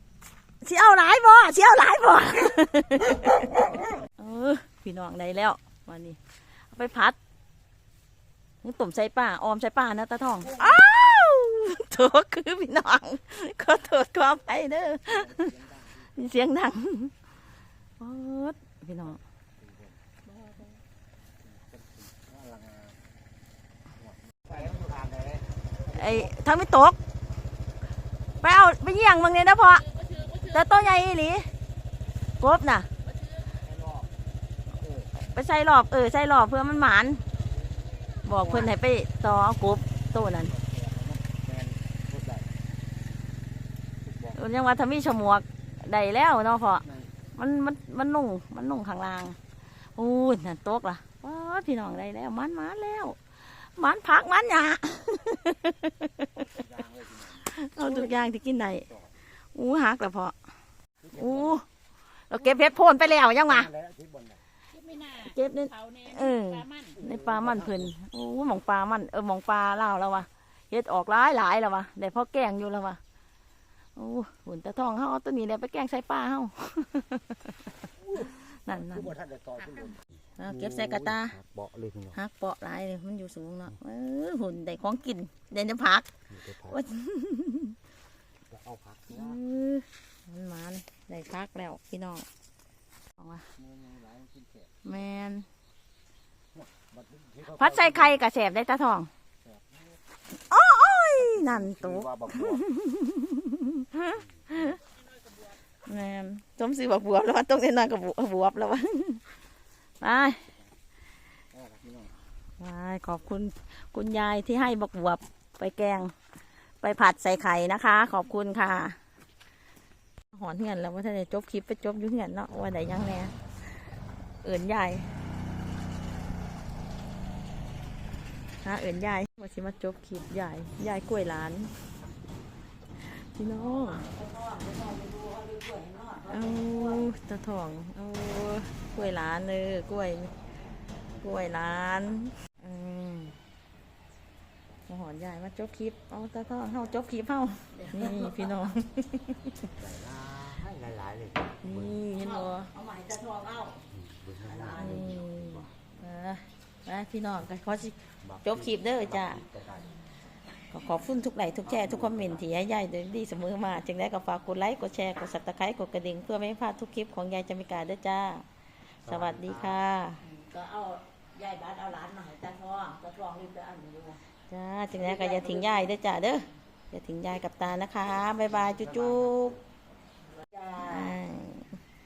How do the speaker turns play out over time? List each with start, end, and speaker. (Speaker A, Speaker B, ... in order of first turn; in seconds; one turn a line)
Speaker A: 0.6-6.2
Speaker A: 6.7-7.2
Speaker A: 8.6-17.1
Speaker B: 14.9-16.2
Speaker A: 18.0-19.2
Speaker B: 19.6-20.0
Speaker B: 21.4-23.0
Speaker B: 24.0-26.3
Speaker A: 25.9-27.0
Speaker A: 28.4-31.5
Speaker A: 32.4-32.9
Speaker B: 33.5-34.1
Speaker B: 34.7-35.1
Speaker A: 35.2-37.2
Speaker A: 38.2-40.5
Speaker B: 38.2-38.7
Speaker B: 40.1-42.5
Speaker B: 44.0-44.4
Speaker A: 44.3-49.4
Speaker B: 46.8-47.1
Speaker A: 50.0-56.3
Speaker B: 56.4-58.3
Speaker A: 57.4-58.9
Speaker A: 59.5-60.4
Speaker B: 61.0-61.6
Speaker A: 61.1-61.6
Speaker A: 62.3-63.7
Speaker B: 63.5-64.4
Speaker C: 64.8-66.9
Speaker A: 65.0-73.0
Speaker B: 66.8-67.9
Speaker A: 74.0-77.5
Speaker B: 78.0-82.2
Speaker A: 78.2-79.2
Speaker A: 80.4-81.4
Speaker A: 82.1-86.1
Speaker B: 86.3-86.8
Speaker A: 86.6-87.8
Speaker B: 88.5-89.4
Speaker A: 89.1-92.3
Speaker A: 93.2-93.5
Speaker B: 93.6-94.8
Speaker A: 94.8-95.5
Speaker B: 96.5-98.2
Speaker A: 97.5-99.1
Speaker B: 99.4-100.0
Speaker A: 100.3-104.8
Speaker B: 101.2-102.7
Speaker A: 105.9-109.2
Speaker A: 110.0-110.5
Speaker B: 111.5-112.2
Speaker A: 112.6-116.1
Speaker A: 116.8-119.0
Speaker A: 120.3-123.4
Speaker A: 124.4-125.1
Speaker A: 128.6-131.8
Speaker A: 133.0-134.1
Speaker C: 133.7-137.0
Speaker A: 136.2-140.3
Speaker A: 141.2-143.4
Speaker A: 144.9-149.7
Speaker C: 147.8-148.3
Speaker B: 149.7-152.0
Speaker A: 151.6-152.9
Speaker C: 152.2-153.8
Speaker B: 153.9-155.7
Speaker C: 154.6-154.9
Speaker A: 154.7-159.4
Speaker B: 158.2-160.1
Speaker A: 160.7-168.5
Speaker B: 161.7-162.4
Speaker A: 169.0-170.3
Speaker B: 169.1-169.8
Speaker C: 170.2-174.2
Speaker A: 174.5-179.6
Speaker C: 175.0-175.8
Speaker C: 180.3-181.2
Speaker A: 180.8-181.8